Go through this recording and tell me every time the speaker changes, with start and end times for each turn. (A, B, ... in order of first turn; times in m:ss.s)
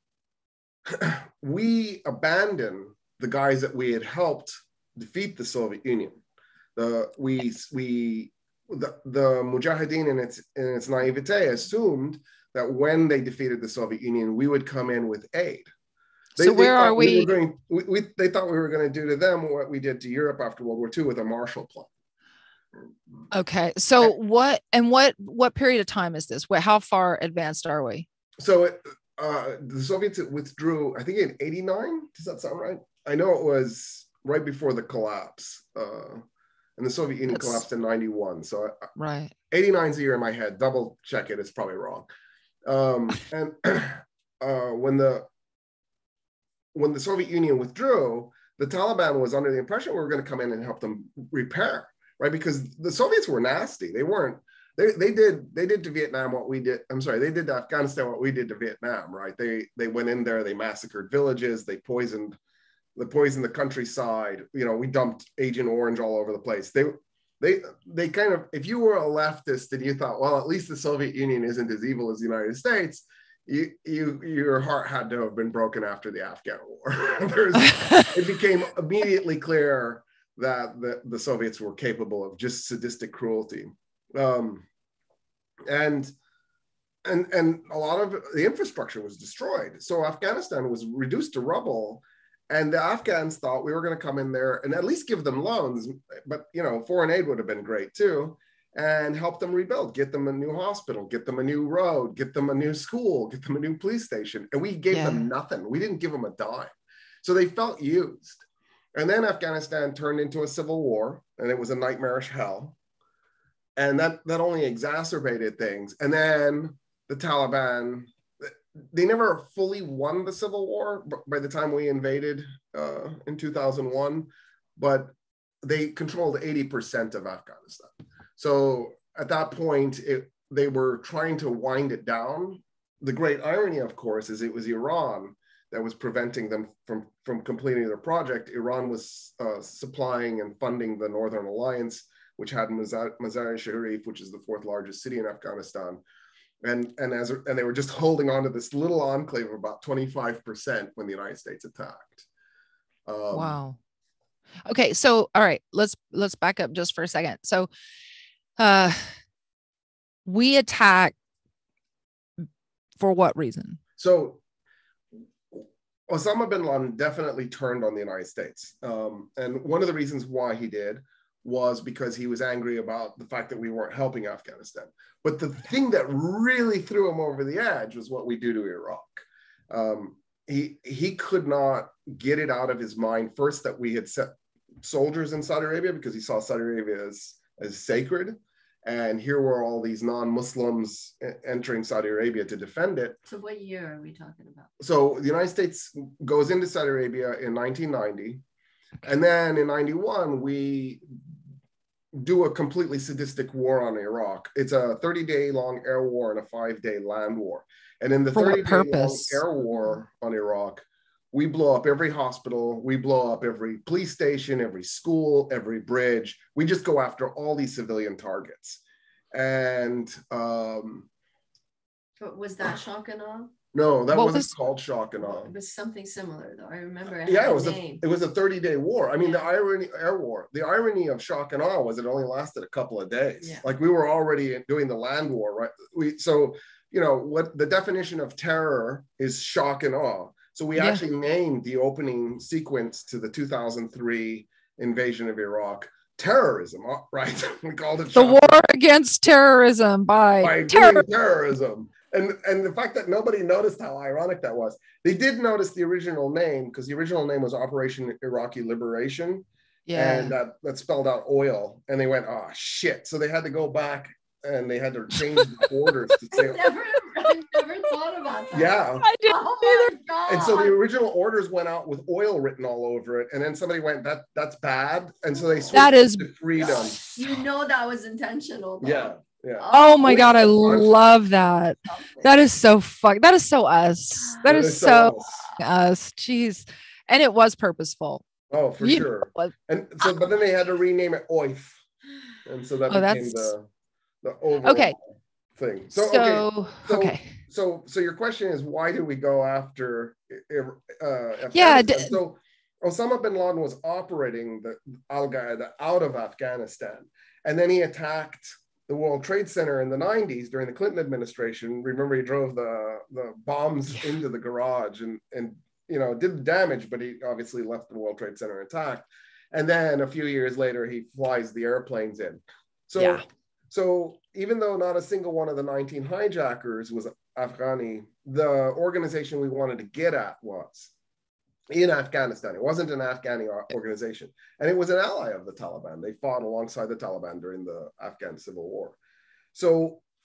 0:00.8-0:06.2 A
0:06.8-0:15.7 A
0:16.4-0:21.9 A
0:16.4-0:17.3 B
0:23.3-0:28.0 B
0:28.4-0:36.2 A
0:36.8-0:38.9 A
0:37.3-0:37.6 B
0:39.0-0:39.3 B
0:39.5-0:42.1 A
0:42.6-0:45.3 A
0:46.7-1:02.4 A
1:03.0-1:24.6 A
1:17.7-1:18.1 B
1:25.7-1:26.1 A
1:27.0-1:46.7 A
1:44.9-1:45.3 B
1:47.2-1:52.8 A
1:53.8-2:05.1 A
2:05.6-2:26.0 A
2:26.6-2:32.2 A
2:33.0-2:33.6 A
2:33.3-2:33.8 B
2:34.6-2:37.7 B
2:38.6-2:39.2 B
2:40.2-2:41.1 B
2:43.0-2:43.8 B
2:44.0-2:44.4 A
2:45.5-3:04.3 A
3:04.8-3:13.2 A
3:13.2-3:14.7 C
3:14.8-3:18.4 A
3:19.0-3:21.0 A
3:22.1-3:38.8 A
3:28.3-3:29.4 B
3:39.3-3:41.1 A
3:42.2-3:43.6 C
3:43.7-3:45.5 A
3:44.1-3:44.5 B
3:45.2-3:48.0 C
3:47.2-4:08.5 A
3:53.4-3:53.6 C
4:00.8-4:01.0 B
4:08.1-4:11.0 B
4:10.4-4:26.7 A
4:19.9-4:20.3 B
4:26.3-4:30.8 C
4:28.5-4:29.1 A
4:29.0-4:30.0 B
4:30.3-4:37.0 A
4:35.5-4:35.7 C
4:35.7-4:36.3 B
4:36.6-4:40.0 C
4:38.8-4:41.0 A
4:39.7-4:48.2 B
4:44.4-4:45.4 A
4:48.5-4:51.8 A
4:48.8-4:49.5 B
4:52.4-4:53.7 A
4:52.9-4:53.5 B
4:54.2-4:55.0 A
4:54.6-4:55.0 B
4:55.6-5:30.9 A
4:55.9-4:57.4 B
5:01.5-5:02.2 B
5:23.0-5:23.2 B
5:31.7-5:39.0 A
5:39.5-5:40.0 A